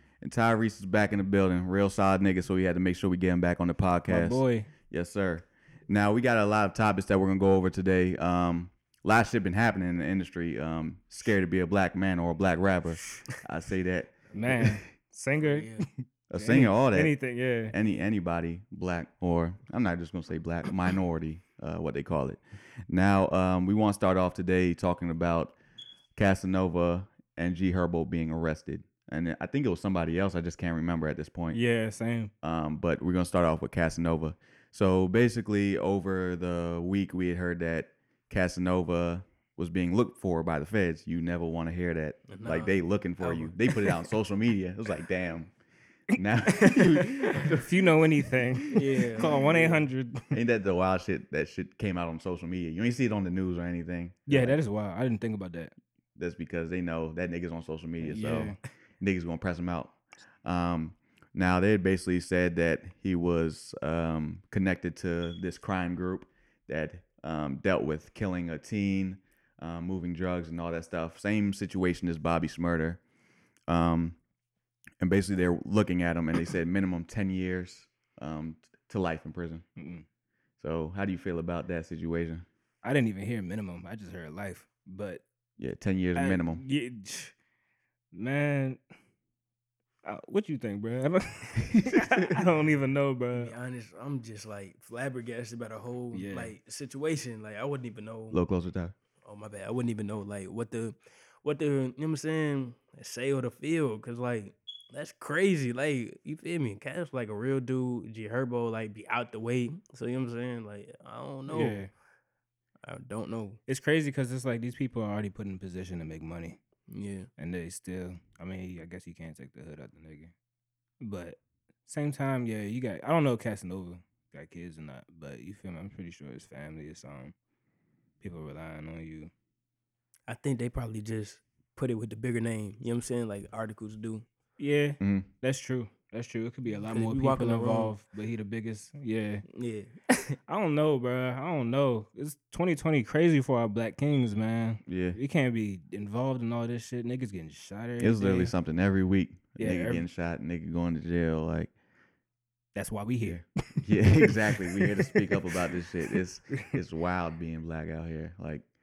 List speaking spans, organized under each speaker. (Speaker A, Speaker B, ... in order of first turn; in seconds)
Speaker A: 0.2-14.8, 16.3-17.1, 17.7-25.5, 26.1-31.6, 32.4-45.5, 46.1-47.5, 50.3-54.6, 56.1-59.9, 60.4-73.0, 73.7-74.2, 75.0-79.6, 80.6-82.4, 85.6-86.6, 98.3-98.9, 135.0-135.3, 144.8-145.2, 148.0-151.7, 153.2-158.7
Speaker B: 4.1-4.7, 14.3-17.7, 31.5-32.3, 46.5-50.3, 54.3-55.7, 58.0-58.5, 79.8-80.0, 82.8-85.2, 86.2-87.3, 88.1-88.8, 90.0-93.5, 96.1-96.5, 111.5-111.9, 113.7-116.6, 117.4-120.3, 121.0-127.3, 128.2-129.3, 134.6-139.4, 140.5-148.5, 149.6-150.1, 152.7-155.3
Speaker C: 15.4-15.9, 42.3-43.5, 48.7-49.8, 93.3-98.4, 99.2-111.8, 112.8-113.6, 116.9-117.3, 130.3-134.2, 136.9-137.9, 139.5-140.3